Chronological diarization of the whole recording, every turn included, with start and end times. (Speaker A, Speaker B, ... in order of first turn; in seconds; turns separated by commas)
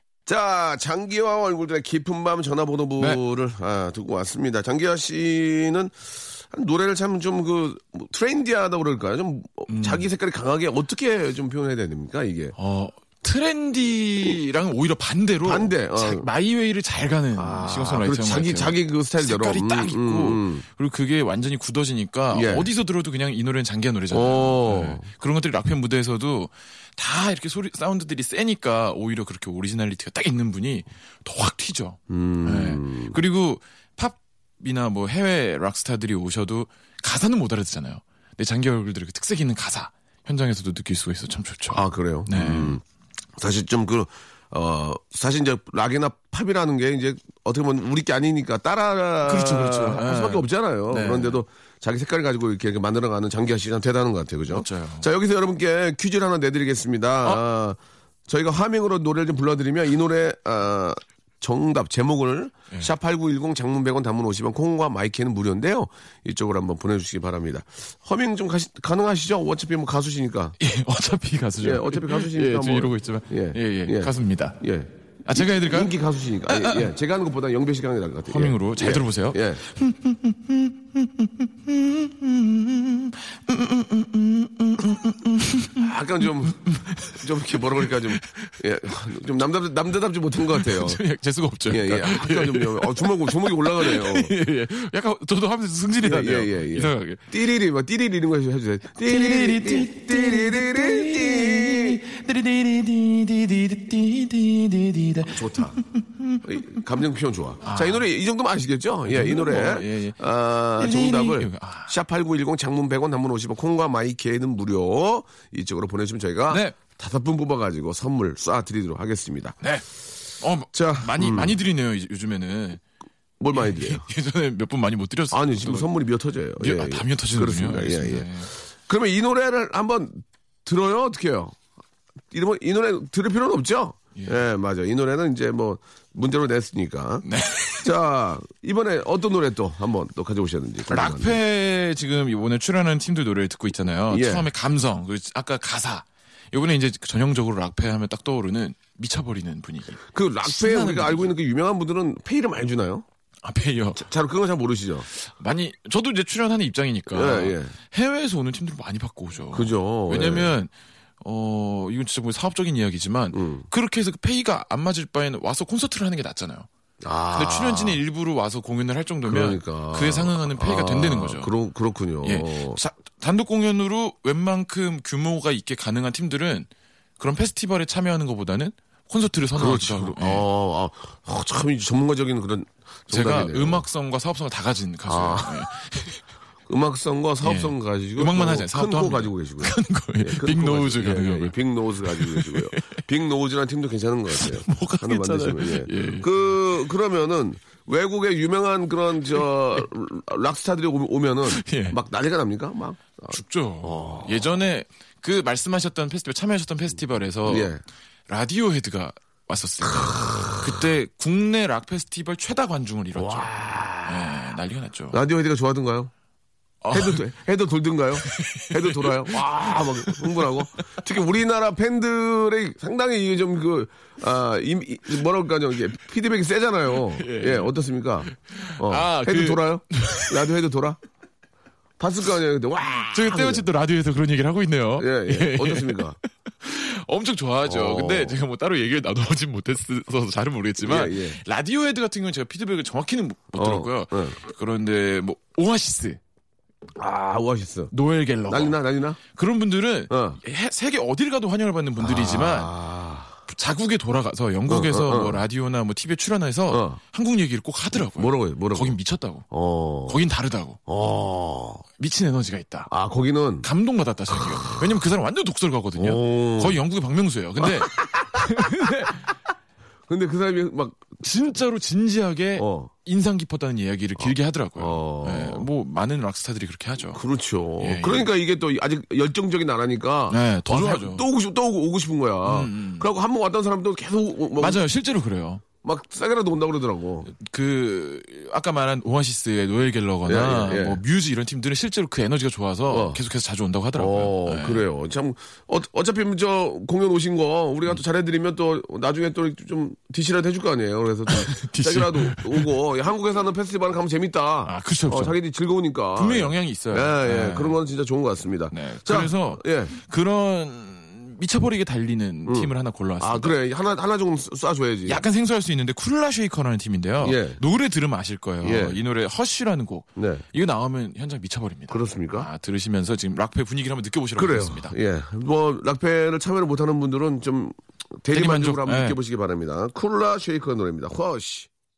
Speaker A: 0.2-12.5, Speaker B: 9.7-10.1, Speaker B: 12.6-42.8, Speaker A: 15.4-16.3, Speaker A: 17.4-20.6, Speaker A: 22.3-22.7, Speaker A: 24.1-25.1, Speaker A: 32.1-33.1, Speaker A: 41.7-42.8, Speaker A: 43.4-70.5, Speaker B: 49.2-51.4, Speaker B: 54.5-55.1, Speaker B: 70.6-74.6, Speaker A: 71.6-79.6, Speaker B: 75.2-75.9, Speaker B: 76.5-76.9, Speaker B: 78.3-88.5, Speaker A: 85.8-91.0, Speaker B: 90.5-97.2, Speaker A: 91.7-94.3, Speaker A: 96.0-102.0, Speaker B: 99.0-106.4, Speaker A: 105.3-105.8, Speaker A: 106.4-119.6, Speaker B: 107.6-108.0, Speaker B: 109.1-110.2, Speaker B: 110.8-111.9, Speaker B: 116.5-116.8, Speaker B: 119.6-119.8, Speaker B: 120.4-122.8, Speaker A: 120.7-121.6, Speaker A: 123.4-124.0, Speaker B: 123.5-125.9, Speaker A: 125.3-131.6, Speaker B: 126.6-128.5, Speaker A: 132.3-137.2, Speaker B: 137.2-137.9, Speaker A: 137.8-141.4, Speaker B: 140.9-151.3, Speaker A: 144.1-144.5, Speaker A: 150.1-153.1, Speaker B: 153.4-154.1, Speaker A: 153.9-155.1, Speaker B: 155.1-166.7, Speaker A: 157.1-157.7, Speaker A: 159.5-160.5, Speaker A: 163.3-163.7, Speaker A: 167.0-168.0, Speaker B: 167.3-171.5, Speaker A: 169.2-172.8, Speaker B: 172.2-176.7, Speaker B: 177.2-180.4, Speaker A: 179.5-183.8, Speaker B: 183.1-186.2, Speaker A: 185.1-185.6, Speaker A: 186.7-204.5, Speaker B: 187.4-193.0, Speaker B: 194.3-196.3, Speaker B: 201.5-202.0, Speaker B: 203.3-207.7, Speaker A: 207.4-207.8, Speaker B: 208.3-213.5, Speaker A: 209.9-210.8, Speaker A: 213.1-214.4, Speaker B: 214.0-215.2, Speaker A: 215.1-216.1, Speaker B: 216.8-217.2, Speaker A: 216.9-231.0, Speaker B: 218.2-220.5, Speaker B: 227.1-227.7, Speaker B: 228.3-230.4, Speaker A: 232.0-233.7, Speaker B: 233.1-236.1, Speaker A: 235.0-236.2, Speaker B: 236.6-246.2, Speaker A: 237.6-238.4, Speaker A: 240.8-241.4, Speaker A: 243.5-244.4, Speaker A: 246.9-247.9, Speaker B: 247.9-252.7, Speaker A: 248.5-249.2, Speaker A: 250.1-250.4, Speaker A: 252.0-253.4, Speaker B: 253.5-259.4, Speaker A: 254.7-255.4, Speaker A: 256.7-257.0, Speaker A: 258.1-258.9, Speaker A: 259.5-260.2, Speaker B: 260.1-260.8, Speaker A: 260.9-261.8, Speaker B: 262.0-262.9, Speaker A: 262.9-263.7, Speaker B: 263.6-269.2, Speaker A: 264.4-264.8, Speaker A: 266.0-266.8, Speaker A: 267.6-268.9, Speaker A: 270.1-271.1, Speaker B: 271.2-277.2, Speaker A: 272.6-272.9, Speaker A: 274.2-275.7, Speaker A: 277.1-284.8, Speaker B: 277.8-278.3, Speaker B: 280.3-281.2, Speaker B: 282.4-283.1, Speaker B: 284.6-285.6, Speaker A: 285.8-287.3, Speaker B: 287.3-294.8, Speaker A: 290.2-291.0, Speaker A: 292.9-293.2, Speaker A: 293.9-309.9, Speaker B: 301.3-302.7, Speaker B: 304.6-305.4, Speaker B: 306.1-307.8, Speaker B: 308.7-313.6, Speaker A: 312.4-315.2, Speaker B: 315.1-324.9, Speaker A: 317.2-317.6, Speaker A: 318.6-319.0, Speaker A: 320.1-320.4, Speaker A: 321.9-322.5, Speaker A: 324.4-331.7, Speaker B: 328.3-329.2